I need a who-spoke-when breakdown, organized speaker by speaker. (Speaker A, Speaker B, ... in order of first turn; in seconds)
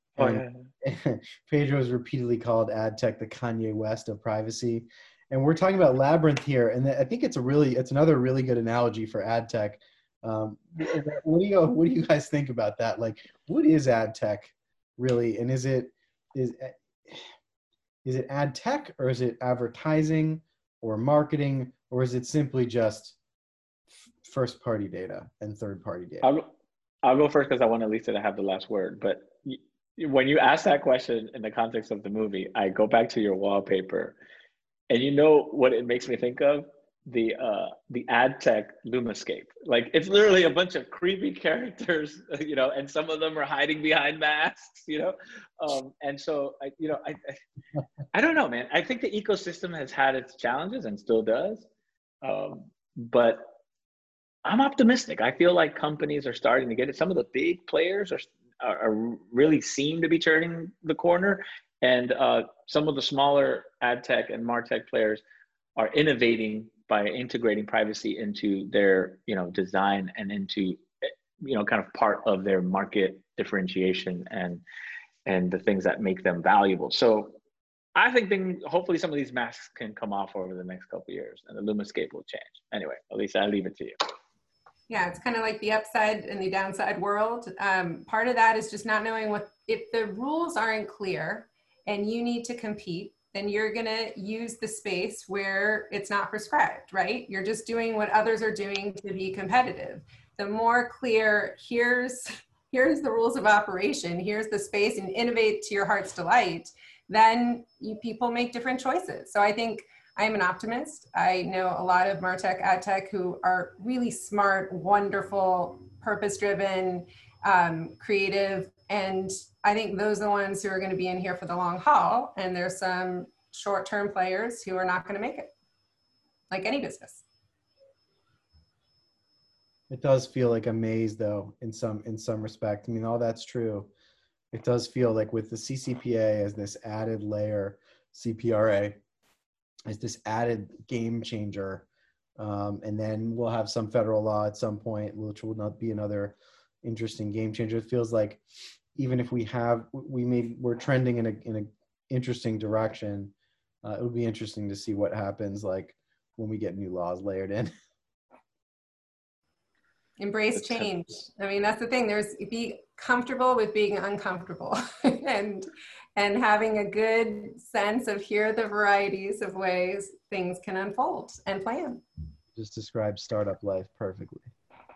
Speaker A: 0.2-0.6, 27.0-34.2, 34.9-47.4, 48.1-51.7, 52.2-53.5, 54.4-65.2, 65.8-74.6, 75.2-77.4, 77.9-84.0, 160.5-161.2
Speaker B: 0.2-17.3, 18.0-23.2, 24.2-26.3, 129.9-133.9, 134.5-139.0, 139.9-141.8, 142.4-148.4, 148.9-157.7, 172.6-174.5
Speaker C: 84.9-125.5, 126.5-127.2, 160.2-172.0